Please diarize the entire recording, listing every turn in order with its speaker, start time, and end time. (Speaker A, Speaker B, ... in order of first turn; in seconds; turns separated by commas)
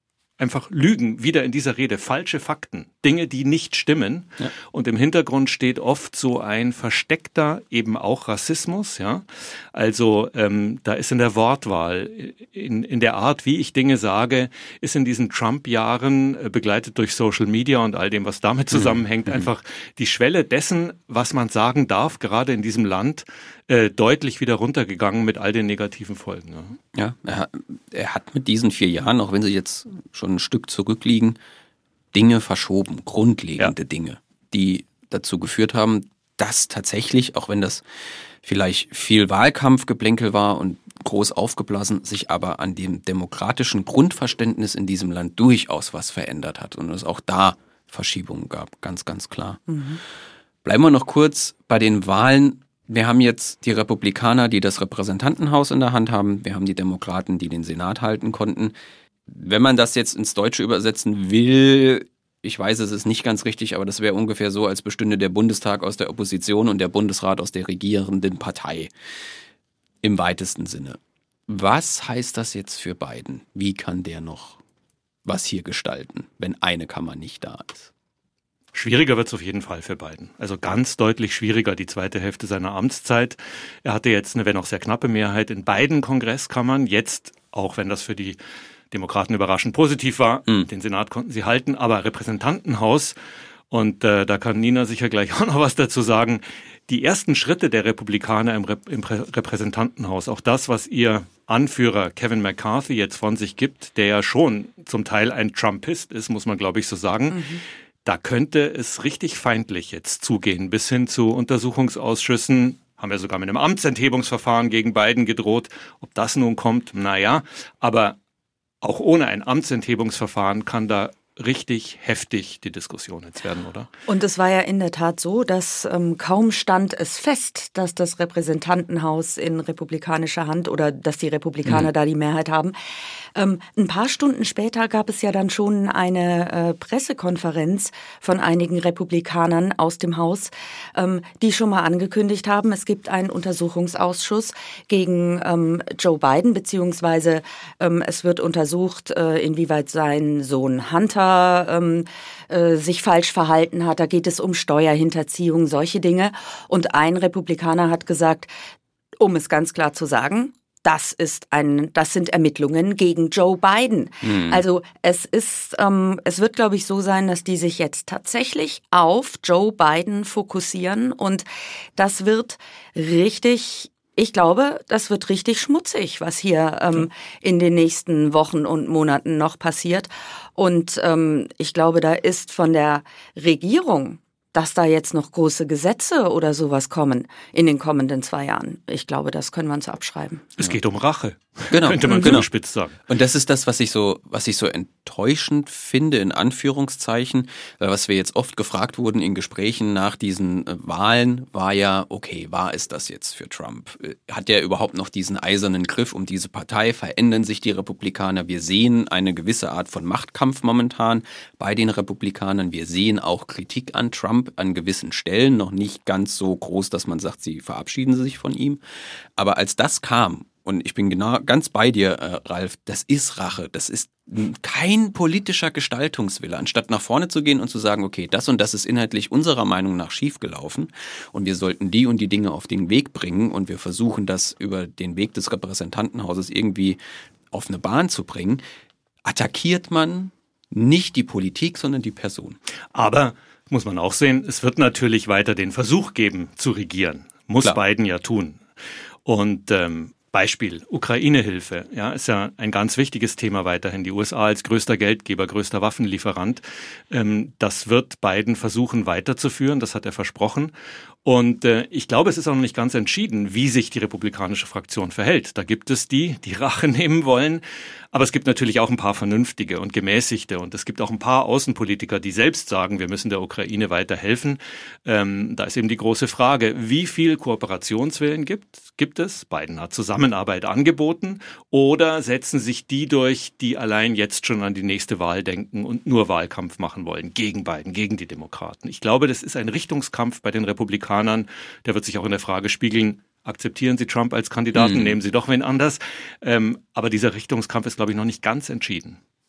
Speaker A: 0.4-26.8, Speaker B: 18.7-19.5, Speaker B: 26.9-31.4, Speaker B: 32.1-37.8, Speaker B: 38.4-49.6, Speaker C: 49.7-50.0, Speaker B: 50.6-58.8, Speaker B: 59.3-68.9, Speaker B: 70.0-74.6, Speaker B: 75.2-77.9, Speaker A: 78.7-88.4, Speaker A: 88.9-93.1, Speaker A: 93.7-107.5, Speaker C: 107.3-107.6, Speaker A: 108.0-118.2, Speaker A: 118.8-123.9, Speaker C: 124.1-132.7, Speaker C: 133.3-158.5, Speaker C: 159.2-171.4, Speaker B: 164.2-164.6, Speaker C: 171.9-190.5, Speaker A: 190.6-193.0, Speaker B: 191.7-192.5, Speaker C: 192.1-192.4, Speaker B: 193.1-218.8, Speaker B: 219.4-237.0, Speaker B: 237.5-238.6, Speaker B: 239.2-242.6, Speaker A: 242.9-248.6, Speaker A: 249.2-260.7, Speaker A: 261.2-299.2, Speaker B: 294.7-295.1